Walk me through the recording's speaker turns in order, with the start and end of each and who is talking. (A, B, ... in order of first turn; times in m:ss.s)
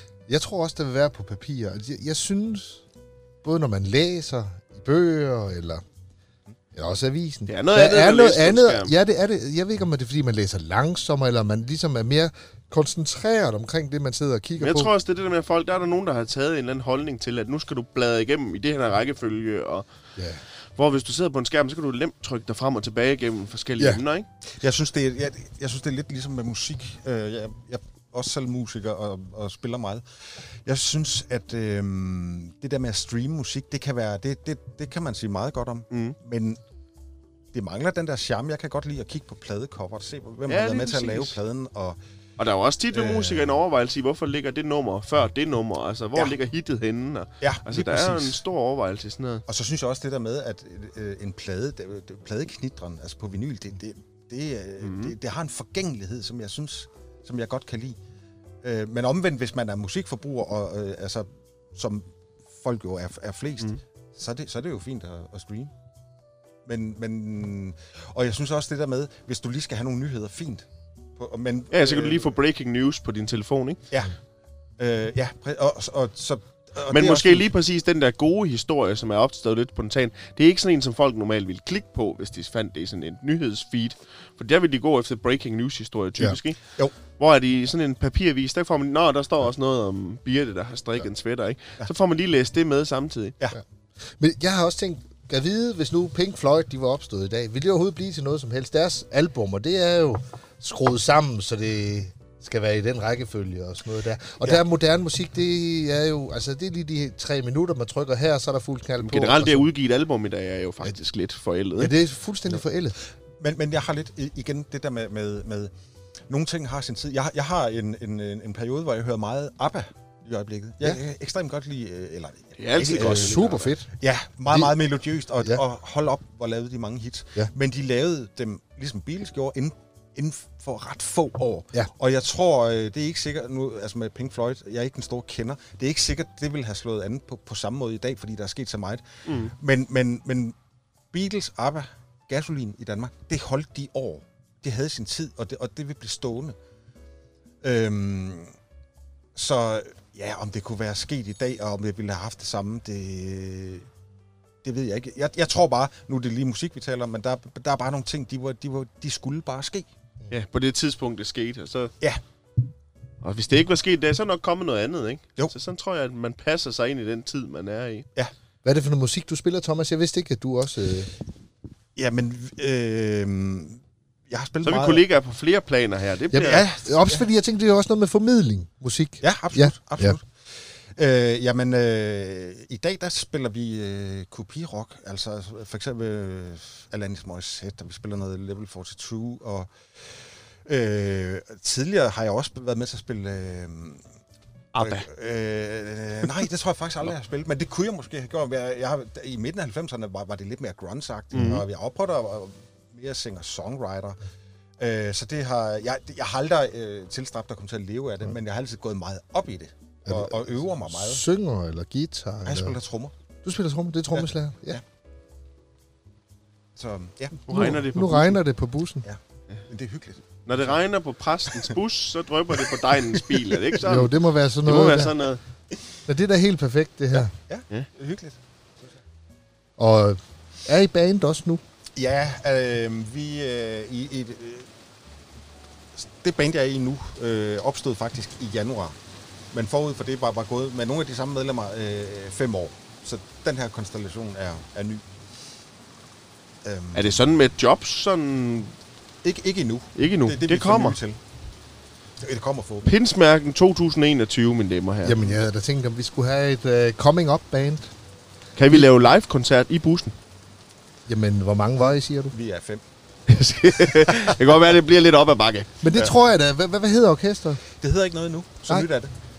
0:00.3-0:02.8 A
0:03.4-0:05.8 A
0:06.8-0:14.9 A
0:07.5-0:08.9 B
0:14.6-0:19.9 B
0:20.8-0:24.3 B
0:24.6-0:30.0 C
0:30.6-0:36.6 C
0:35.9-0:36.2 B
0:37.5-0:42.0 C
0:40.5-0:41.4 B
0:42.4-0:49.4 B
0:42.9-0:43.6 C
0:47.4-0:48.4 C
0:49.5-0:58.0 C
0:54.8-0:55.1 B
0:58.6-1:05.7 C
1:06.6-1:10.6 C
1:11.2-1:12.4 C
1:11.7-1:13.8 B
1:14.8-1:17.5 C
1:16.9-1:26.6 B
1:27.1-1:33.4 B
1:34.2-1:49.7 A
1:49.0-1:51.9 B
1:51.8-1:53.0 A
1:53.4-1:55.7 C
1:56.3-2:20.5 C
2:02.6-2:03.6 B
2:03.0-2:03.9 A
2:19.2-2:19.5 B
2:21.1-2:26.6 C
2:27.6-2:28.5 C
2:29.4-2:33.9 C
2:34.6-2:39.9 C
2:40.3-2:41.9 B
2:43.2-2:48.1 B
2:48.6-2:51.1 A
2:52.0-2:55.0 C
2:54.6-2:56.6 B
2:56.3-3:00.2 A
2:56.4-2:57.2 C
2:59.2-3:00.3 C
3:01.0-3:09.7 C
3:10.6-3:14.0 C
3:14.7-3:15.1 B
3:14.8-3:24.2 C
3:21.3-3:21.6 B
3:24.8-3:31.2 C
3:30.0-3:32.8 A
3:32.4-3:33.1 C
3:33.4-3:34.8 A
3:34.1-3:34.8 C
3:36.8-3:37.4 C
3:37.5-3:38.4 B
3:37.5-3:39.0 A
3:39.0-3:40.8 C
3:40.4-3:44.1 B
3:43.1-3:43.6 C
3:43.8-3:45.1 A
3:44.6-3:45.4 B
3:46.1-3:47.3 A
3:47.2-3:48.4 C
3:49.8-3:51.6 A
3:52.0-3:54.7 C
3:56.0-3:58.9 C
3:59.5-4:05.0 C
4:06.6-4:07.2 C
4:06.9-4:08.7 B
4:09.2-4:11.2 C
4:10.0-4:11.0 B
4:12.2-4:12.9 C
4:12.8-4:15.2 B
4:15.0-4:17.9 A
4:18.6-4:20.1 B
4:21.1-4:22.4 A
4:22.3-4:22.8 C
4:23.3-4:25.7 B
4:25.8-4:27.6 A
4:27.8-4:29.1 C